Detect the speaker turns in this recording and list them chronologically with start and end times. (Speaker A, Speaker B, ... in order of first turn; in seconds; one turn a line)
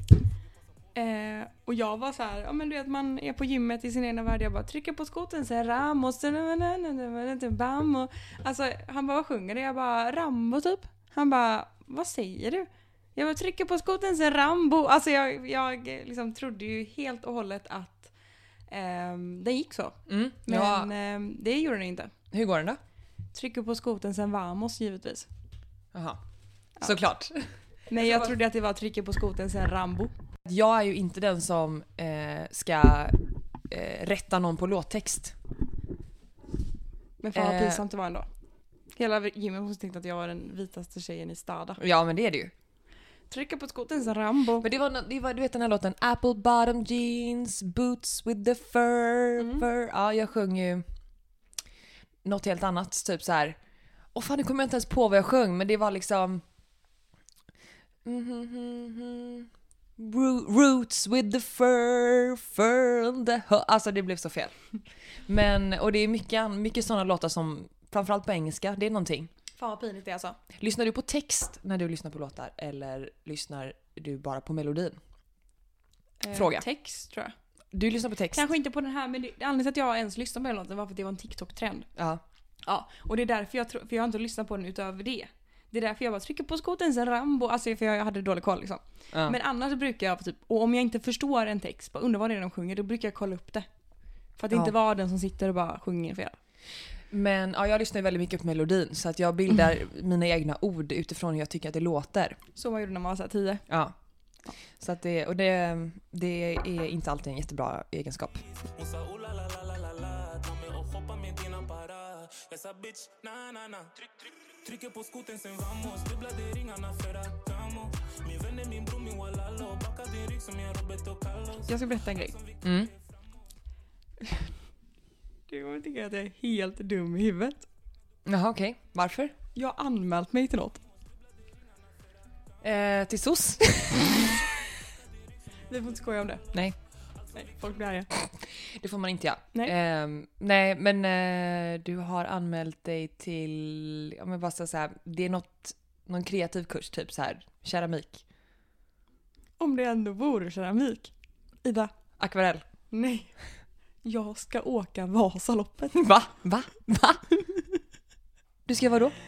Speaker A: 0.9-18.1
Speaker A: 18.7-22.1
Speaker B: 20.1-20.9
Speaker B: 22.3-22.8
Speaker A: 23.3-25.3
Speaker B: 25.9-26.2
Speaker B: 26.8-27.4
Speaker A: 27.9-30.1
Speaker B: 27.9-28.3
Speaker B: 30.4-35.4
Speaker A: 37.2-38.3
Speaker B: 37.3-37.8
Speaker A: 39.0-41.8
Speaker B: 41.8-42.5
Speaker A: 43.3-44.7
Speaker B: 44.6-50.8
Speaker A: 49.4-49.7
Speaker B: 52.2-53.6
Speaker B: 54.1-56.4
Speaker B: 58.0-64.6
Speaker B: 65.3-69.3
Speaker A: 69.6-70.4
Speaker B: 70.6-75.0
Speaker A: 76.2-77.3
Speaker B: 76.3-76.7
Speaker B: 77.7-78.4
Speaker A: 78.3-81.9
Speaker B: 82.0-82.2
Speaker A: 82.6-93.7
Speaker A: 94.4-96.4
Speaker B: 97.1-102.4
Speaker A: 102.6-103.7
Speaker B: 103.7-104.0
Speaker B: 104.8-108.4
Speaker C: 108.8-122.9
Speaker A: 121.7-122.3
Speaker B: 122.6-122.9
Speaker A: 125.5-127.7
Speaker B: 128.2-129.3
Speaker A: 129.6-130.8
Speaker B: 132.6-134.4
Speaker A: 135.7-136.4
Speaker A: 137.3-138.1
Speaker B: 138.2-148.2
Speaker A: 149.6-151.1
Speaker A: 151.6-151.9
Speaker B: 152.2-152.7
Speaker A: 152.9-153.3
Speaker A: 154.0-156.0
Speaker B: 155.9-157.2
Speaker B: 158.7-159.1